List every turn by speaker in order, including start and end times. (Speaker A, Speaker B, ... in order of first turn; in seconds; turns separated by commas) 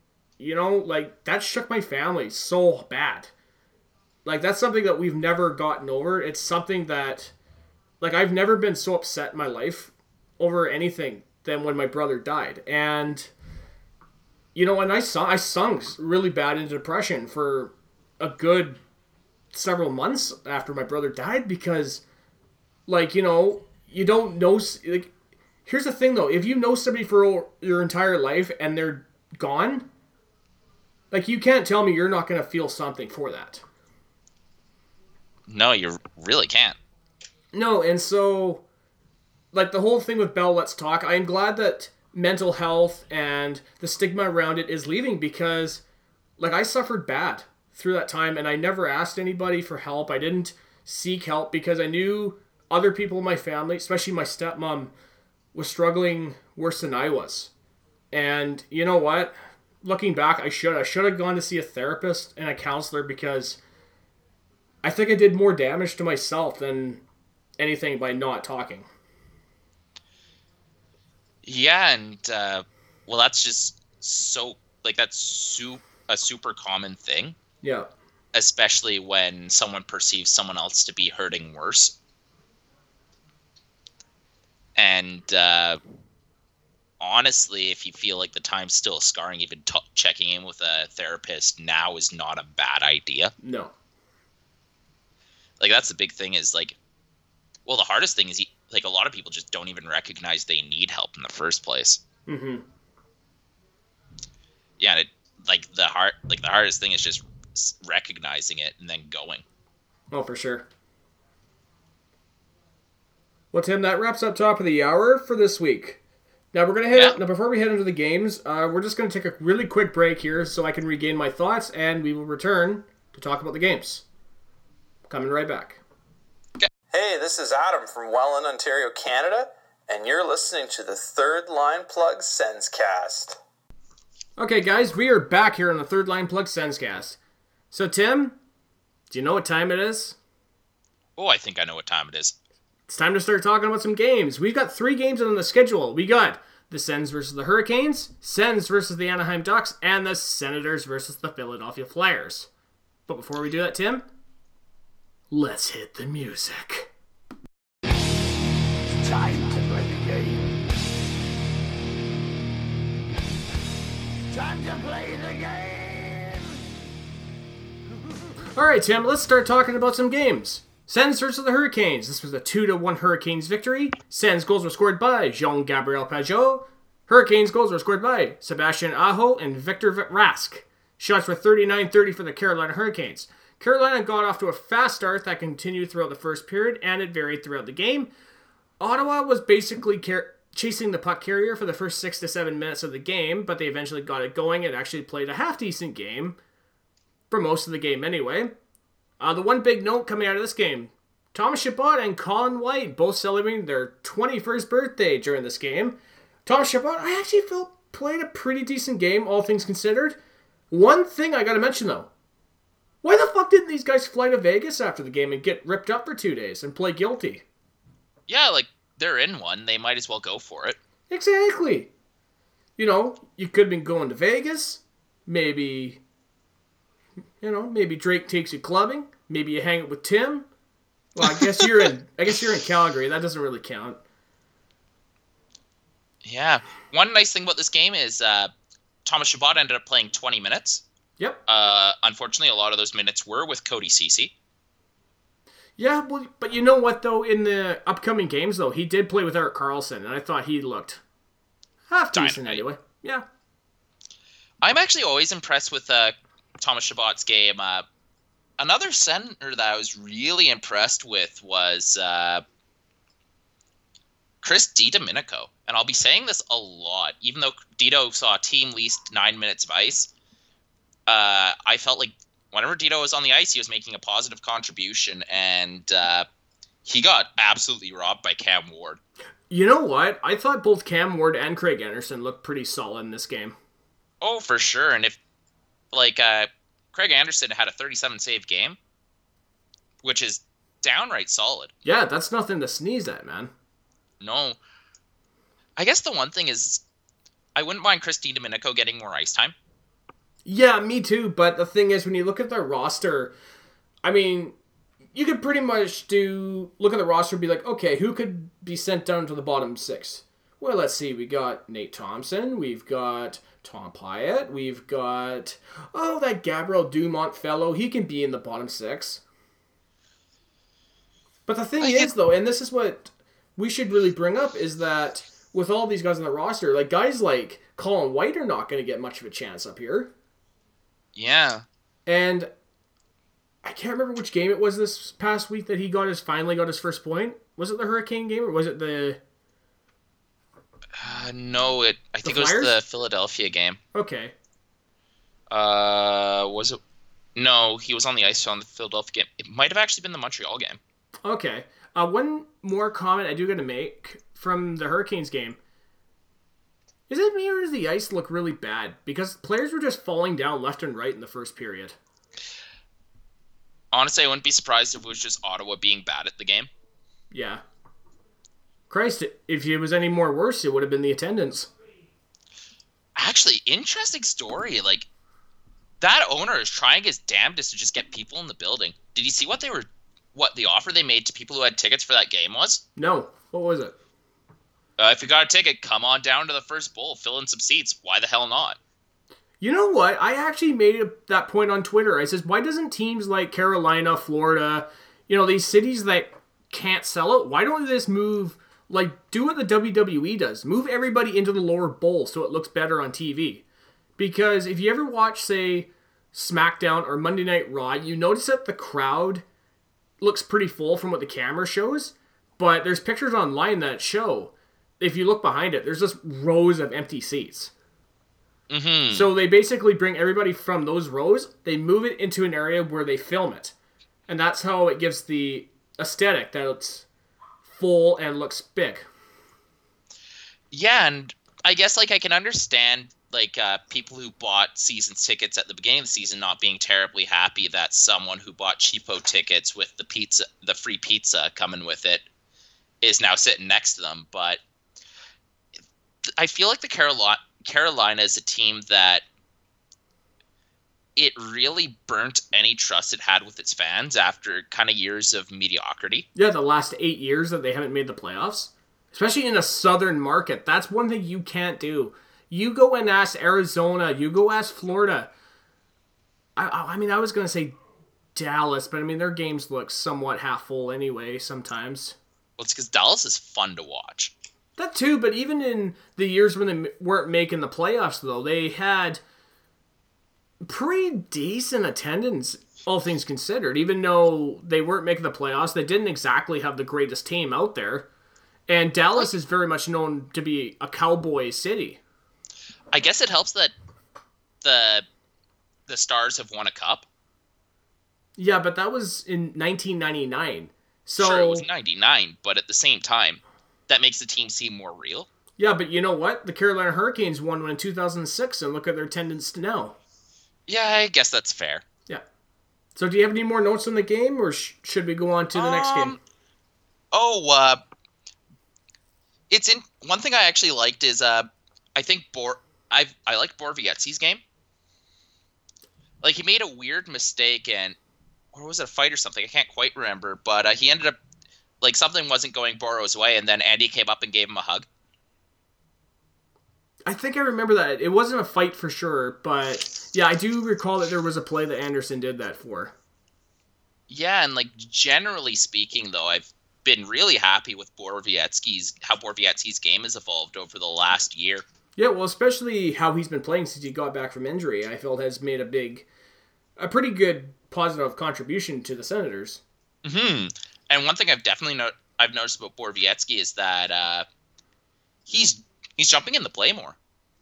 Speaker A: 0.4-3.3, Speaker A: 4.2-7.3, Speaker A: 8.0-13.3, Speaker A: 14.6-18.8, Speaker A: 19.5-22.0, Speaker A: 22.9-25.1, Speaker A: 25.7-29.9, Speaker A: 31.1-33.6, Speaker B: 35.5-36.8, Speaker A: 37.5-38.7, Speaker A: 39.5-45.8, Speaker A: 46.4-54.9, Speaker A: 55.5-57.5, Speaker A: 58.1-63.6, Speaker A: 64.8-67.0, Speaker A: 67.6-68.9, Speaker B: 71.4-77.4, Speaker A: 77.6-77.9, Speaker B: 78.3-82.0, Speaker B: 84.8-85.8, Speaker B: 87.0-93.3, Speaker A: 93.4-93.7, Speaker B: 95.6-96.8, Speaker B: 97.7-102.0, Speaker A: 102.3-102.7, Speaker B: 104.8-109.4, Speaker A: 110.1-110.7, Speaker A: 113.5-116.0, Speaker A: 116.5-124.0, Speaker A: 125.1-125.8, Speaker C: 126.9-133.4, Speaker A: 134.4-137.2, Speaker A: 137.7-138.4, Speaker A: 139.1-140.2, Speaker B: 141.2-142.4, Speaker A: 142.9-152.5, Speaker A: 153.1-154.1, Speaker A: 155.3-156.9, Speaker D: 159.0-160.5, Speaker D: 164.3-166.5, Speaker A: 168.6-188.1, Speaker A: 188.8-196.4, Speaker A: 197.3-198.5, Speaker A: 199.2-210.2, Speaker A: 210.7-212.1, Speaker A: 213.0-217.4, Speaker B: 218.3-220.8, Speaker A: 221.1-221.9, Speaker A: 222.8-226.0, Speaker A: 227.4-230.5, Speaker A: 231.2-234.0, Speaker B: 236.2-238.5, Speaker B: 239.1-240.8, Speaker B: 241.5-244.3, Speaker A: 245.8-251.0, Speaker A: 251.9-253.2, Speaker B: 252.1-252.6, Speaker B: 254.6-257.9, Speaker B: 258.6-262.4, Speaker B: 264.4-270.1, Speaker B: 271.1-276.3, Speaker B: 276.9-279.0, Speaker A: 279.5-283.6, Speaker B: 284.2-285.2, Speaker B: 285.9-288.8, Speaker B: 290.0-291.7, Speaker A: 291.9-293.5, Speaker B: 294.2-294.6, Speaker B: 295.8-296.8, Speaker B: 297.6-299.6, Speaker A: 300.4-303.4, Speaker A: 304.0-304.6, Speaker A: 305.1-319.2, Speaker A: 321.5-330.1, Speaker B: 321.8-322.1, Speaker B: 331.1-331.6, Speaker A: 332.1-332.5, Speaker A: 333.6-339.2, Speaker B: 341.0-343.8, Speaker A: 342.2-342.8, Speaker A: 343.9-344.3, Speaker B: 345.5-346.8, Speaker B: 347.4-350.8, Speaker A: 351.2-355.6, Speaker A: 357.1-362.0, Speaker B: 363.9-366.7, Speaker A: 367.3-367.6, Speaker A: 368.9-371.7, Speaker B: 373.2-375.1, Speaker B: 376.0-382.8, Speaker A: 383.0-384.0, Speaker B: 385.0-388.8, Speaker A: 389.6-403.6, Speaker A: 404.2-409.4, Speaker A: 410.2-417.7, Speaker B: 418.7-419.3, Speaker A: 419.1-423.8, Speaker A: 424.3-427.1, Speaker A: 427.7-429.1, Speaker B: 430.7-442.2, Speaker B: 443.0-444.6, Speaker B: 446.3-449.2, Speaker B: 451.2-456.3, Speaker A: 456.4-465.3, Speaker A: 466.6-467.8, Speaker A: 468.4-472.2, Speaker B: 472.6-474.3, Speaker A: 474.8-479.2, Speaker A: 480.6-488.1, Speaker A: 488.7-492.0, Speaker B: 492.9-493.7, Speaker B: 494.6-495.1, Speaker B: 495.9-497.1, Speaker A: 498.4-501.7, Speaker B: 501.2-505.3, Speaker A: 505.6-510.0, Speaker B: 510.7-511.9, Speaker A: 513.0-516.2, Speaker B: 515.5-516.2, Speaker B: 517.1-517.8, Speaker B: 519.5-524.4, Speaker B: 526.2-528.0, Speaker B: 528.5-531.2, Speaker B: 531.8-534.9, Speaker A: 537.1-543.0, Speaker B: 544.1-551.6, Speaker A: 552.0-556.1, Speaker A: 556.8-559.6, Speaker B: 560.0-564.3, Speaker B: 565.3-567.0